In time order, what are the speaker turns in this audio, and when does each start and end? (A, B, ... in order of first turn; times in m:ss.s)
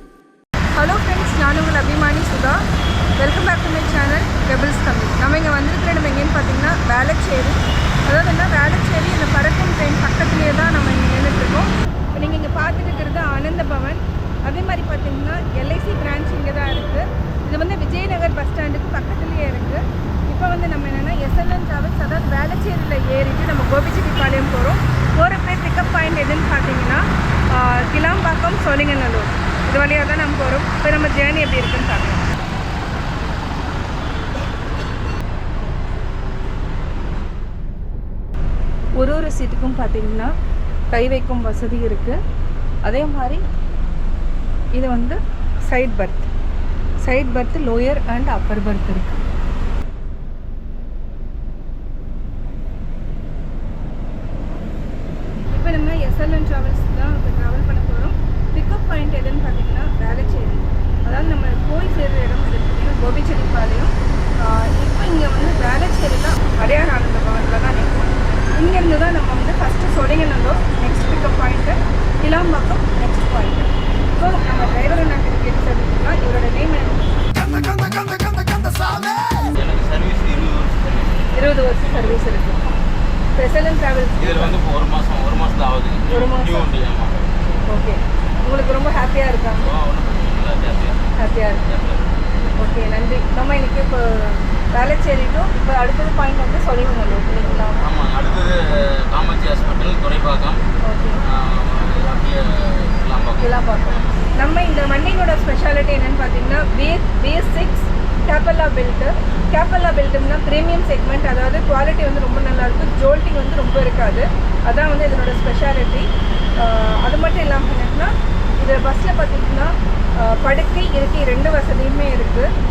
0:00.8-0:02.6 A
0:03.2-0:32.3 A
0:39.0-0:40.3 A
0:40.9-0:42.2 A
0:42.8-0:43.4 A
0:44.7-0:46.3 A
0:47.0-0:49.2 A
0:55.5-1:17.2 A
1:19.5-1:21.2 B
1:21.3-1:22.6 A
1:23.3-1:24.6 A
1:24.2-1:27.2 B
1:26.1-1:26.7 A
1:27.7-1:29.7 A
1:29.6-1:30.9 B
1:31.2-1:31.6 A
1:31.7-1:32.0 B
1:32.5-1:37.8 A
1:37.8-1:38.5 B
1:39.1-1:40.6 B
1:40.8-1:41.2 A
1:41.3-1:43.3 B
1:43.4-2:02.5 A